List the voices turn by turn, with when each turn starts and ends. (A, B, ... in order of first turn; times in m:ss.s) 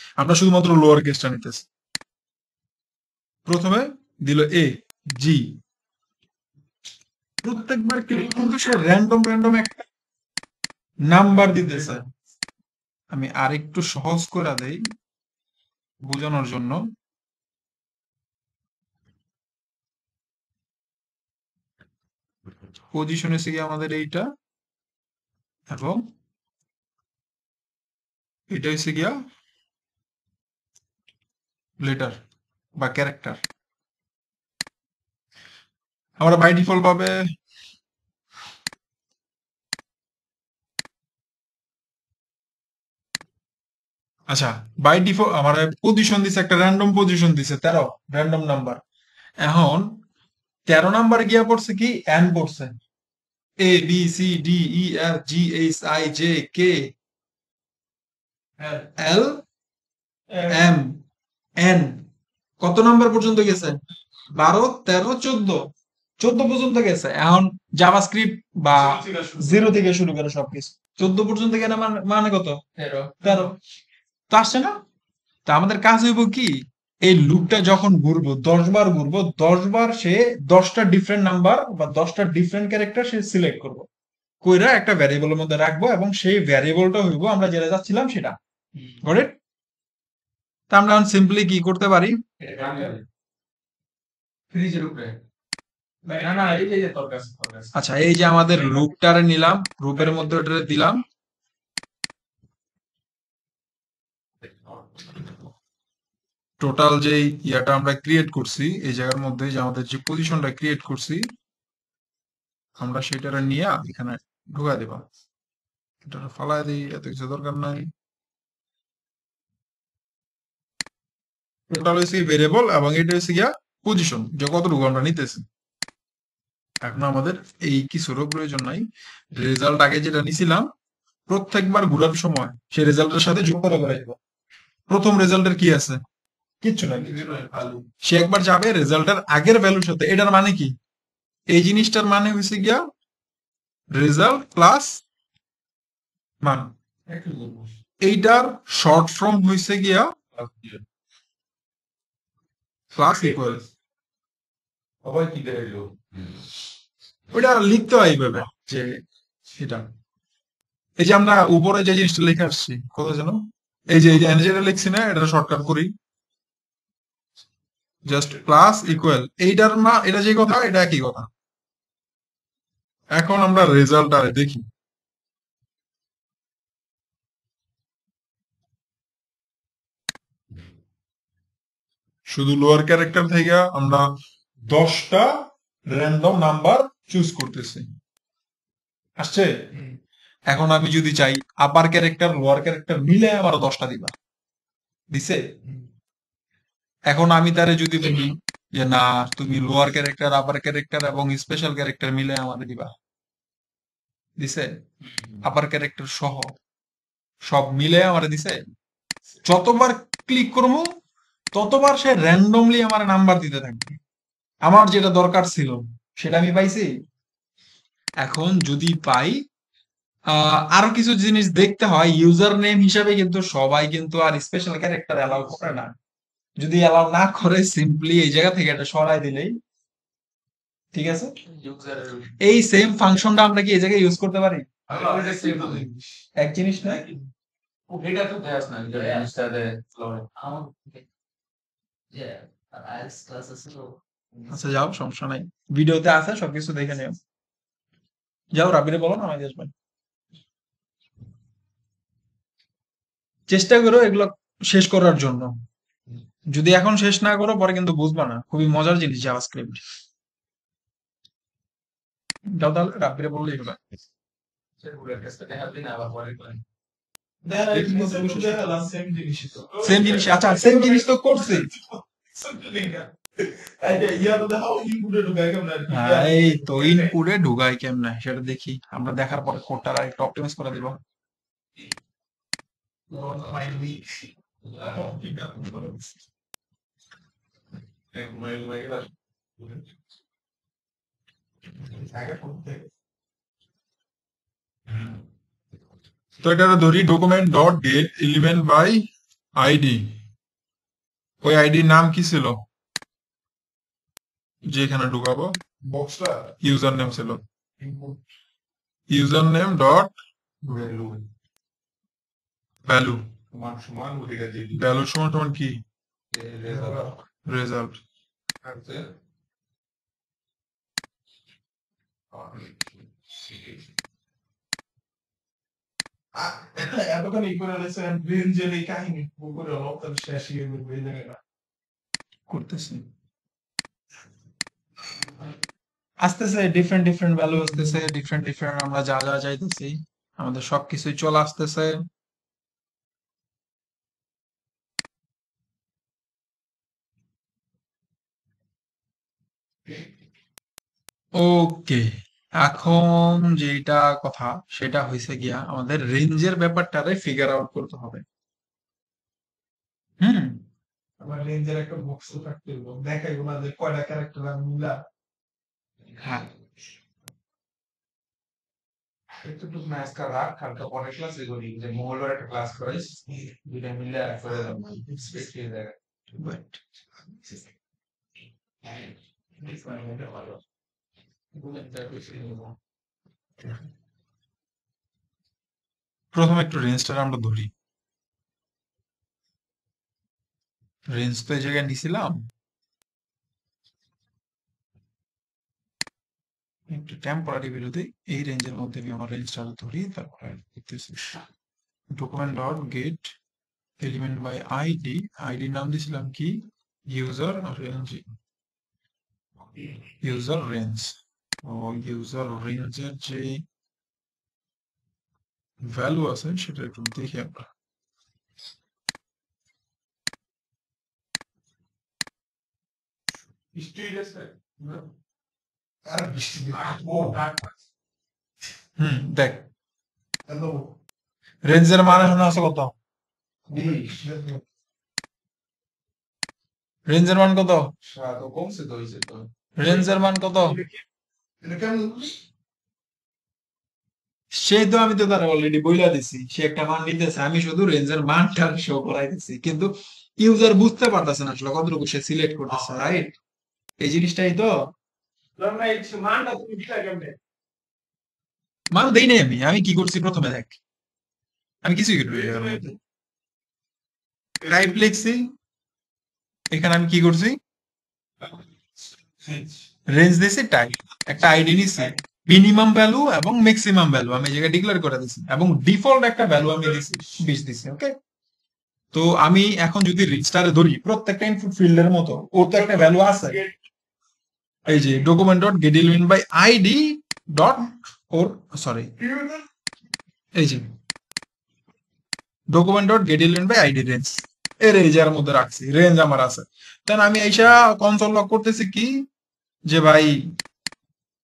0:00.2-0:01.6 A
0:03.4-0:05.6 A
0:07.4-0:09.8 A
0:11.1-0:12.0 A
0:13.1-0:14.8 A
0:16.0-0:16.8 A
0:22.9-0:24.3 A
0:25.7-0:26.1 A
0:28.5-0:29.2 A
0:31.8-0:32.2 A
0:32.8-0:33.4 A
0:36.2-0:37.2 A
0:44.3-0:48.8 A
0:49.4-0:50.0 A
0:50.7-0:52.7 A
0:53.6-0:56.9 A
0:59.0-0:59.4 A
1:00.5-1:01.0 A
1:01.6-1:02.0 A
1:02.6-1:03.8 A
1:04.3-1:12.6 A
1:08.8-1:09.4 B
1:12.8-1:13.2 C
1:13.2-1:13.5 A
1:14.3-1:14.8 A
1:15.5-1:23.9 A
1:24.4-1:28.4 A
1:29.0-1:29.3 A
1:30.7-1:32.2 A
1:32.4-1:33.0 C
1:34.5-1:35.2 C
1:36.0-1:37.7 C
1:37.7-1:41.0 A
1:46.6-1:51.3 A
1:52.8-1:55.0 A
1:56.0-1:57.9 A
2:01.7-2:05.4 A
2:06.8-2:10.7 A
2:11.3-2:14.2 A
2:14.9-2:16.0 A
2:16.6-2:17.2 A
2:17.0-2:17.9 C
2:18.0-2:20.7 A
2:21.5-2:22.8 A
2:23.9-2:25.0 A
2:26.4-2:26.7 A
2:27.1-2:27.7 C
2:28.0-2:30.1 A
2:30.3-2:30.8 C
2:32.9-2:33.6 A
2:33.1-2:33.6 C
2:35.0-2:36.3 C
2:37.3-2:39.0 A
2:39.5-2:39.8 A
2:41.0-2:45.9 A
2:48.0-2:51.3 A
2:53.1-2:54.6 A
3:02.3-3:04.1 A
3:04.7-3:07.9 A
3:09.2-3:09.7 A
3:10.5-3:14.1 A
3:15.1-3:15.5 A
3:17.1-3:22.9 A
3:24.4-3:24.8 A
3:25.4-3:26.6 A
3:27.5-3:28.6 A
3:29.4-3:30.9 A
3:31.5-3:33.8 A
3:34.6-3:36.9 A
3:38.2-3:39.4 A
3:40.3-3:45.9 A
3:46.6-3:49.6 A
3:50.9-3:51.3 A
3:51.5-3:52.4 C
3:52.4-3:54.7 A
3:54.9-3:55.9 C
3:54.9-3:56.0 B
3:56.4-3:57.0 A
3:56.8-3:57.2 C
3:57.9-4:01.0 C
4:02.1-4:04.5 C
4:04.5-4:07.2 A
4:08.5-4:09.7 A
4:13.5-4:15.5 A
4:16.5-4:19.8 A
4:22.5-4:23.8 A
4:24.8-4:26.6 C
4:27.4-4:37.1 B
4:27.7-4:28.8 A
4:29.8-4:31.7 A
4:35.9-4:41.0 A
4:43.1-4:44.0 B
4:44.7-4:46.1 B
4:48.1-4:49.1 C
4:51.9-4:52.9 B
4:56.4-5:00.2 A
5:01.4-5:02.6 A
5:04.7-5:05.6 A
5:05.9-5:06.4 B
5:06.6-5:07.4 A
5:07.8-5:08.2 B
5:09.1-5:10.1 A
5:10.6-5:11.2 C
5:12.8-5:13.2 A
5:13.5-5:14.8 C
5:14.7-5:15.8 A
5:16.3-5:17.1 C
5:16.6-5:17.1 B
5:17.4-5:18.0 A
5:18.6-5:19.1 C
5:22.3-5:22.7 B
5:26.3-5:31.4 B
5:32.5-5:33.0 A
5:36.2-5:42.0 A
5:51.4-5:52.0 A
5:52.6-5:58.2 A
6:00.2-6:00.6 A
6:01.2-6:05.0 B
6:06.2-6:06.5 A
6:09.4-6:16.0 C
6:16.3-6:16.8 A
6:19.6-6:20.6 B
6:21.5-6:22.8 C
6:26.3-6:27.7 A
6:31.1-6:32.4 A
6:36.9-6:41.3 A
6:42.1-6:43.3 A
6:44.0-6:48.2 A
6:50.2-6:53.6 A
6:55.8-6:57.7 A
7:03.7-7:05.0 B
7:06.0-7:07.7 B
7:09.0-7:09.6 A
7:10.5-7:10.9 B
7:11.6-7:12.9 A
7:12.1-7:12.3 B
7:13.7-7:14.6 B
7:13.7-7:14.2 C
7:17.1-7:17.9 A
7:18.0-7:19.5 C
7:19.8-7:20.8 A
7:20.6-7:21.0 B
7:21.6-7:22.4 B
7:24.5-7:33.3 A
7:34.0-7:34.9 A
7:35.6-7:37.4 B
7:38.9-7:40.8 A
7:41.8-7:42.8 A
7:42.3-7:43.0 B
7:44.7-7:45.5 A
7:46.7-7:47.6 A
7:49.4-7:49.7 B
7:50.1-7:58.1 A
7:57.0-7:57.3 B
7:59.1-8:03.6 A
8:02.6-8:03.8 B
8:04.9-8:09.1 A
8:09.2-8:09.6 B
8:10.6-8:10.8 A
8:12.7-8:19.2 A
8:19.9-8:20.5 A